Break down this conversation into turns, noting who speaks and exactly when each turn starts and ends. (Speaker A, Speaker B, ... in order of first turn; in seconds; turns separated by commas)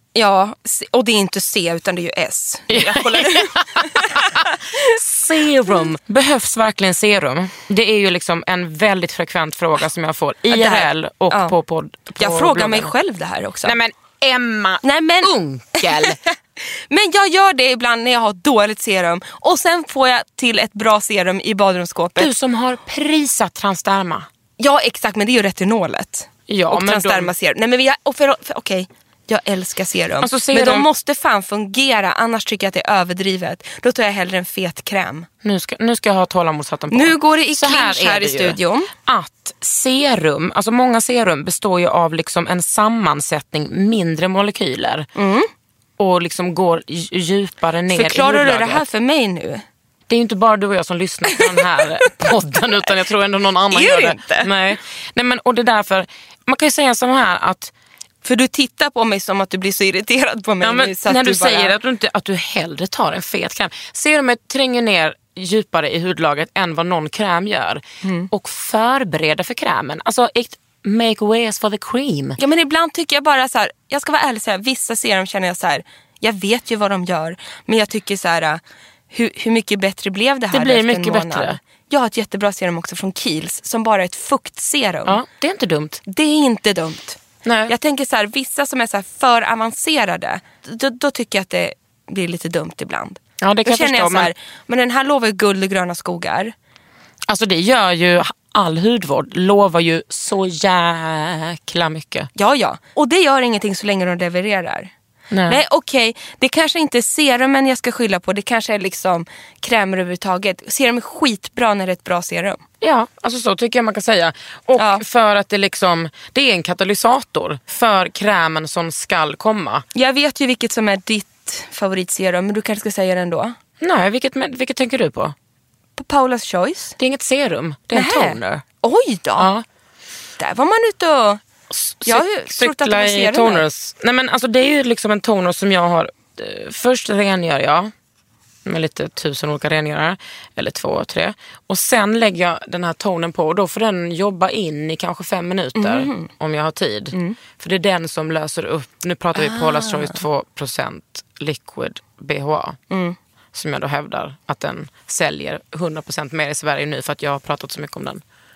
Speaker A: 0.1-4.9, Speaker B: 2.7-12.9, Speaker A: 10.5-11.5, Speaker A: 12.2-13.7, Speaker B: 13.6-16.2, Speaker A: 14.8-22.3, Speaker B: 22.2-24.3, Speaker A: 24.6-35.3, Speaker B: 26.5-27.3, Speaker B: 30.2-30.9, Speaker B: 35.4-45.1, Speaker A: 36.9-38.9, Speaker A: 45.1-45.5, Speaker B: 46.0-48.8, Speaker A: 47.9-49.6, Speaker B: 50.1-57.7, Speaker A: 51.3-52.1, Speaker A: 53.7-54.5, Speaker A: 58.2-61.7, Speaker B: 60.6-72.4, Speaker A: 68.0-68.3, Speaker A: 72.4-85.2, Speaker B: 80.5-81.6, Speaker B: 85.0-86.0, Speaker A: 86.1-96.5, Speaker B: 87.4-87.7, Speaker B: 93.4-94.3, Speaker B: 97.3-102.3, Speaker A: 102.3-104.9, Speaker B: 105.3-105.6, Speaker A: 105.5-112.6, Speaker B: 112.8-119.8, Speaker A: 114.8-115.0, Speaker A: 119.9-123.5, Speaker B: 123.8-125.3, Speaker A: 126.0-126.9, Speaker B: 127.0-128.6, Speaker A: 127.9-129.5, Speaker B: 129.4-129.6, Speaker A: 130.4-131.4, Speaker B: 131.7-137.9, Speaker A: 132.1-133.6, Speaker B: 138.6-152.8, Speaker A: 145.8-146.3, Speaker A: 149.3-150.2, Speaker A: 152.9-153.2, Speaker B: 153.5-158.2